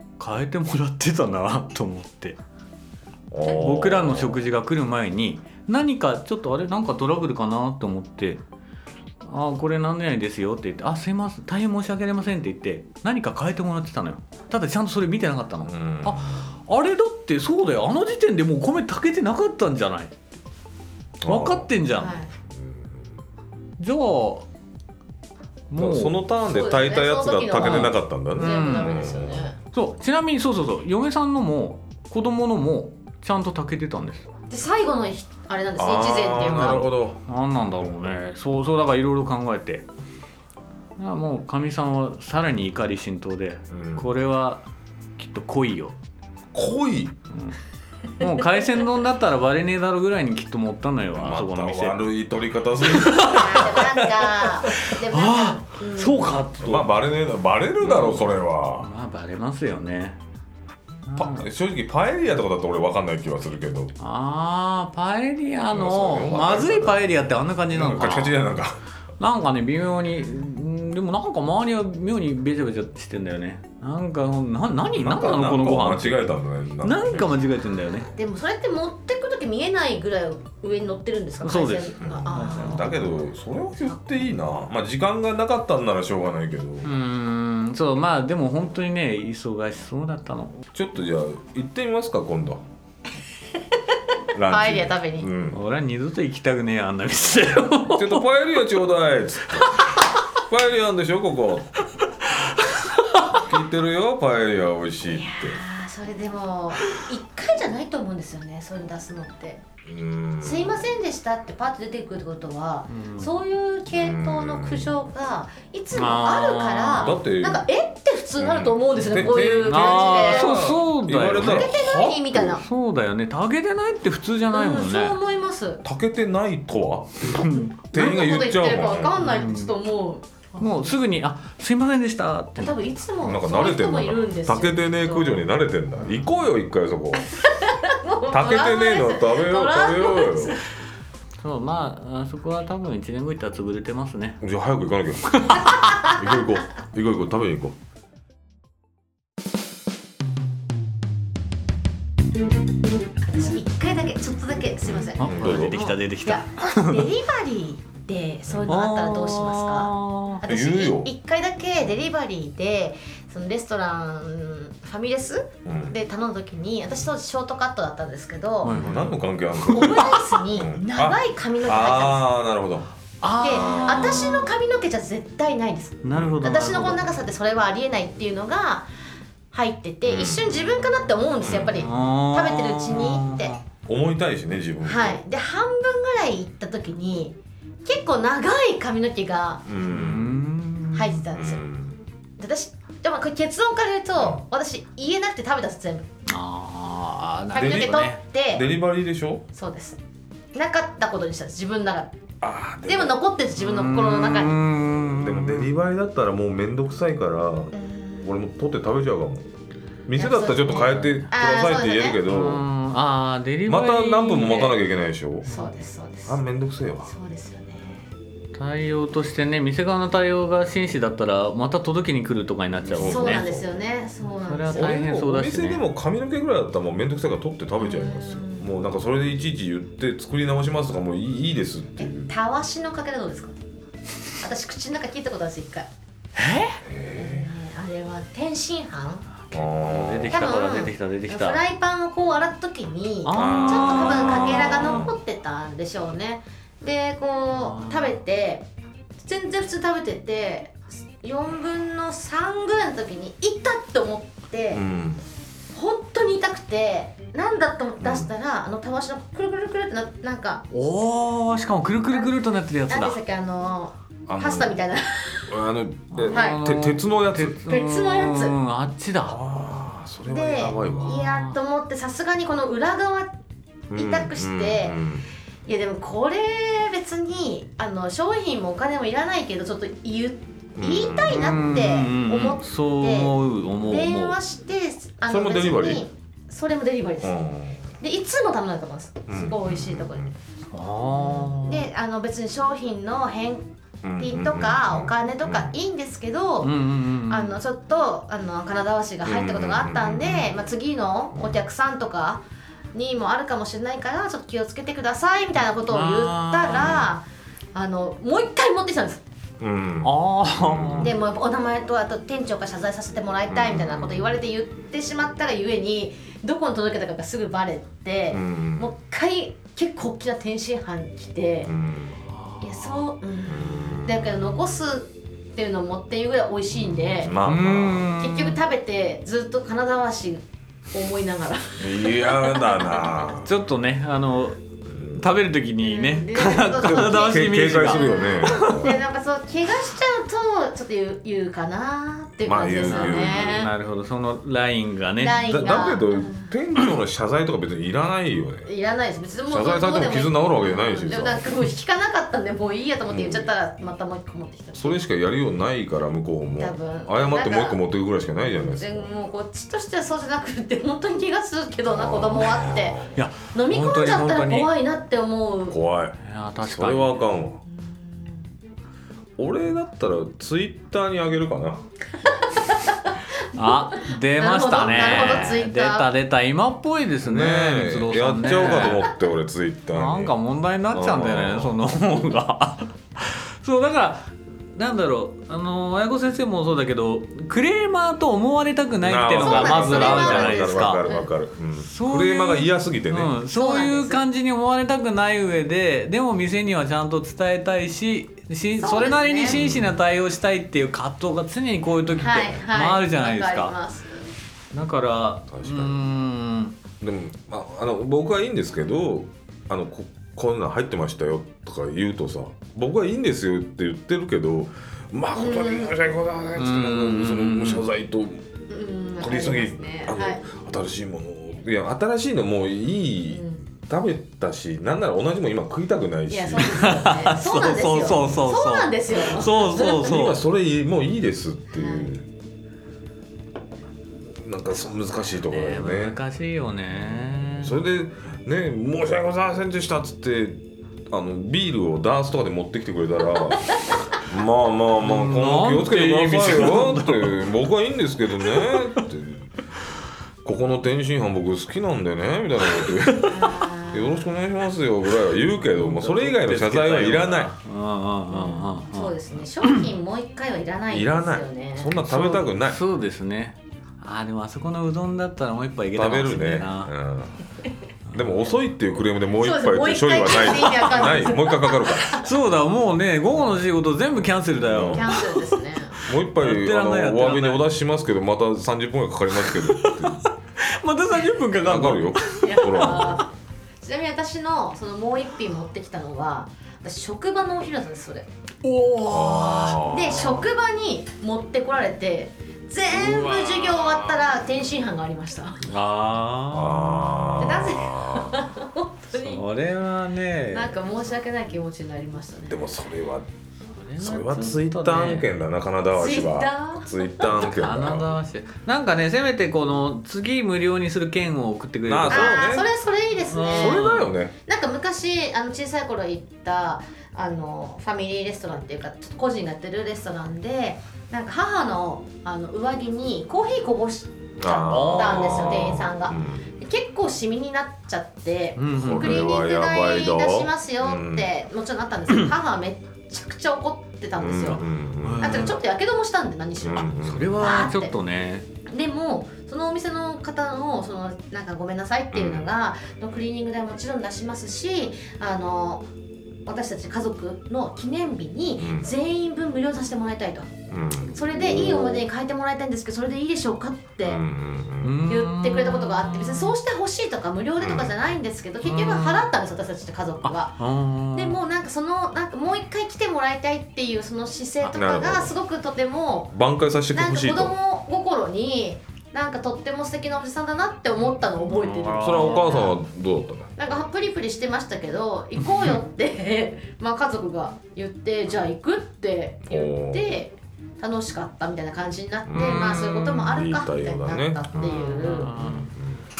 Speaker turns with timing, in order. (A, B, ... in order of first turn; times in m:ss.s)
0:00.2-0:02.4 A
0:03.3-0:04.4 B
0:03.4-0:08.4 A
0:09.2-0:20.2 A
0:15.6-0:16.5 B
0:21.2-0:21.7 B
0:21.2-0:22.2 A
0:22.0-0:22.3 C
0:22.5-0:23.1 B
0:23.8-0:24.5 A
0:25.7-0:26.2 A
0:25.8-0:29.5 B
0:26.4-0:29.6 C
0:27.6-0:29.1 A
0:29.7-0:34.3 A
0:34.5-0:36.9 C
0:35.8-0:37.2 B
0:36.6-0:39.8 A
0:41.0-0:44.6 A
0:43.7-0:44.1 B
0:45.2-0:46.0 A
0:46.5-0:47.2 B
0:47.3-0:47.6 A
0:48.2-0:52.0 A
0:51.1-0:53.8 B
0:52.9-0:56.9 A
0:53.1-0:56.3 C
0:56.6-0:58.9 B
0:57.8-1:00.2 A
1:01.1-1:01.4 A
1:01.2-1:03.9 B
1:04.0-1:08.4 A
1:05.7-1:07.2 B
1:07.7-1:08.8 B
1:09.2-1:16.3 A
1:14.9-1:17.3 B
1:16.8-1:18.1 A
1:18.1-1:22.9 C
1:21.4-1:23.1 A
1:22.0-1:27.0 B
1:26.8-1:30.6 A
1:30.7-1:32.6 B
1:34.3-1:35.6 B
1:34.5-1:35.3 C
1:35.5-1:38.2 A
1:37.8-1:39.8 B
1:40.4-1:41.8 B
1:42.2-1:43.4 A
1:43.3-1:45.6 B
1:45.0-1:49.6 C
1:49.8-1:50.9 B
1:50.4-2:00.6 C
1:52.9-1:53.3 A
1:53.9-1:54.9 B
1:55.9-1:57.2 A
1:57.0-1:57.6 B
1:58.4-2:02.6 B
1:59.6-2:01.7 A
2:01.3-2:02.6 C
2:02.4-2:05.2 A
2:04.5-2:05.8 C
2:05.8-2:09.2 B
2:07.3-2:07.8 A
2:07.9-2:10.9 C
2:09.2-2:09.7 A
2:10.6-2:12.7 A
2:12.6-2:15.4 C
2:13.2-2:17.3 B
2:17.4-2:20.6 C
2:18.3-2:20.6 B
2:21.4-2:24.4 A
2:24.4-2:27.8 B
2:25.3-2:25.9 A
2:33.2-2:48.8 C
2:34.8-2:35.8 B
2:35.2-2:37.1 A
2:38.4-2:38.8 B
2:38.7-2:40.4 A
2:40.4-2:41.1 B
2:45.6-2:46.0 B
2:48.6-2:49.7 A
2:48.7-2:52.9 B
2:49.6-2:52.2 C
2:53.2-2:54.5 A
2:53.4-2:58.9 C
2:56.0-2:57.1 A
2:56.1-2:56.4 B
2:59.5-3:03.5 C
3:00.0-3:00.6 B
3:01.4-3:01.8 B
3:01.7-3:03.6 A
3:03.9-3:05.2 B
3:04.8-3:09.6 C
3:09.6-3:10.3 B
3:09.9-3:11.2 A
3:10.9-3:11.6 C
3:11.3-3:12.0 B
3:12.4-3:16.1 C
3:16.3-3:18.2 A
3:17.5-3:18.7 C
3:17.5-3:19.4 B
3:19.5-3:20.0 C
3:20.5-3:22.2 C
3:22.4-3:23.2 B
3:22.8-3:24.6 C
3:23.6-3:25.7 A
3:24.9-3:29.5 B
3:27.7-3:28.4 C
3:30.1-3:32.6 B
3:30.1-3:32.2 C
3:30.9-3:31.2 A
3:32.2-3:34.8 A
3:33.6-3:35.5 B
3:35.5-3:36.4 C
3:36.2-3:37.1 B
3:37.0-3:38.1 C
3:38.5-3:43.4 A
3:42.8-3:43.8 B
3:43.0-3:45.0 C
3:44.4-3:45.8 A
3:44.7-3:52.3 B
3:47.8-3:48.7 C
3:52.0-3:53.6 C
3:54.4-3:55.9 C
3:56.4-3:56.8 A
3:56.8-3:57.5 B
3:57.1-3:59.3 C
3:59.5-4:00.5 B
3:59.5-4:01.6 A
4:00.3-4:08.7 C
4:03.2-4:04.6 A
4:03.3-4:05.2 B
4:07.6-4:08.1 A
4:09.2-4:14.8 C
4:14.7-4:15.2 B
4:15.7-4:20.6 C
4:18.0-4:18.3 B
4:20.7-4:23.2 A
4:22.9-4:25.5 C
4:24.3-4:24.8 B
4:25.5-4:27.6 B
4:26.1-4:29.4 A
4:26.3-4:26.6 C
4:27.7-4:28.5 C
4:29.2-4:31.2 B
4:30.3-4:33.3 C
4:30.8-4:31.6 A
4:33.9-4:35.3 B
4:33.9-4:35.0 C
4:35.6-4:47.4 C
4:40.8-4:41.5 B
4:41.3-4:44.4 A
4:45.2-4:46.0 B
4:47.2-4:47.9 B
4:48.0-4:50.3 C
4:49.3-4:50.3 B
4:50.7-4:51.9 A
4:51.1-4:56.7 C
4:54.0-4:55.7 B
4:56.6-4:57.6 A
4:57.3-5:02.4 C
4:59.2-5:00.5 B
5:01.3-5:01.6 B
5:02.9-5:09.2 C
5:05.9-5:07.0 A
5:06.7-5:07.1 B
5:09.6-5:11.2 B
5:10.0-5:11.1 A
5:11.0-5:21.7 C
5:13.5-5:14.2 B
5:18.3-5:18.9 B
5:21.6-5:22.2 B
5:22.6-5:27.4 C
5:23.4-5:24.5 B
5:26.7-5:28.1 B
5:27.4-5:28.6 A
5:28.2-5:33.1 C
5:31.8-5:33.6 B
5:33.4-5:38.9 A
5:34.8-5:35.4 B
5:35.8-5:43.7 C
5:36.8-5:39.0 B
5:42.4-5:43.7 B
5:42.8-5:45.5 A
5:45.2-5:46.5 C
5:45.4-5:48.7 B
5:48.6-5:55.0 C
5:49.5-5:51.5 B
5:53.1-5:53.5 B
5:54.7-5:59.1 B
5:56.6-5:57.8 C
5:58.6-6:05.8 C
6:01.9-6:03.1 B
6:03.1-6:04.7 A
6:05.7-6:07.6 B
6:06.2-6:07.2 A
6:07.7-6:08.4 C
6:09.4-6:11.8 B
6:12.4-6:16.1 C
6:13.5-6:19.1 A
6:17.2-6:20.3 B
6:19.9-6:31.0 A
6:20.9-6:21.7 B
6:29.0-6:33.4 B
6:29.4-6:31.3 C
6:31.8-6:43.8 A
6:33.5-6:34.2 C
6:38.8-6:39.6 C
6:39.5-6:39.9 B
6:42.2-6:44.3 C
6:44.7-6:46.8 A
6:45.5-6:46.0 B
6:47.0-6:58.4 B
6:55.4-6:56.0 C
6:56.6-6:57.8 A
6:58.7-7:00.4 C
6:59.2-7:07.2 B
7:03.3-7:03.6 C
7:06.3-7:10.2 C
7:06.6-7:10.4 A
7:08.0-7:08.4 B
7:09.4-7:12.2 B
7:11.7-7:12.1 C
7:14.3-7:16.2 B
7:15.5-7:17.8 A
7:16.9-7:23.6 B
7:24.2-7:29.5 B
7:25.0-7:27.4 A
7:30.4-7:37.5 B
7:33.3-7:34.2 C
7:35.7-7:39.8 A
7:38.3-7:42.0 C
7:40.9-7:42.8 B
7:42.0-7:46.9 A
7:45.9-7:47.4 B
7:48.1-7:52.2 B
7:49.4-7:52.2 C
7:52.1-7:55.4 A
7:54.6-7:55.2 B
7:54.9-7:56.0 C
7:56.0-8:00.2 B
7:56.3-7:57.7 A
7:59.3-8:03.2 A
8:01.6-8:03.2 B
8:02.4-8:03.3 C
8:03.8-8:08.3 C
8:08.6-8:09.9 A
8:09.0-8:10.5 B
8:09.8-8:15.6 C
8:13.0-8:14.1 B
8:15.6-8:17.4 A
8:16.5-8:18.5 B
8:17.4-8:19.4 C
8:19.1-8:20.8 A
8:20.5-8:22.6 C
8:22.4-8:23.3 B
8:23.7-8:25.3 A
8:24.0-8:28.1 B
8:25.9-8:27.8 C
8:27.3-8:32.6 A
8:31.8-8:32.7 B
8:32.1-8:33.8 C
8:33.2-8:34.1 A
8:33.5-8:34.3 B
8:34.4-8:54.6 C
8:44.4-8:46.5 B
8:44.7-8:45.6 A
8:48.6-8:49.2 A
8:48.7-8:51.3 B
8:54.2-8:55.5 B
8:55.0-8:55.6 A
8:55.2-8:57.9 C
8:56.6-8:57.4 B
8:57.0-8:58.5 A
8:58.7-9:05.8 C
9:02.1-9:02.5 B
9:06.4-9:10.5 C
9:08.6-9:08.9 B
9:10.7-9:12.0 B
9:11.1-9:14.2 C
9:14.0-9:15.0 B
9:14.8-9:16.5 A
9:15.1-9:20.6 C
9:17.6-9:17.9 B
9:18.6-9:19.3 A
9:20.2-9:21.4 A
9:21.1-9:26.3 C
9:24.7-9:25.3 B
9:26.3-9:27.5 B
9:26.9-9:32.8 C
9:31.5-9:32.6 A
9:31.9-9:33.5 B
9:33.6-9:45.3 C
9:39.5-9:40.2 B
9:42.3-9:44.7 B
9:42.3-9:43.3 A
9:44.5-9:45.7 A
9:45.3-9:46.0 B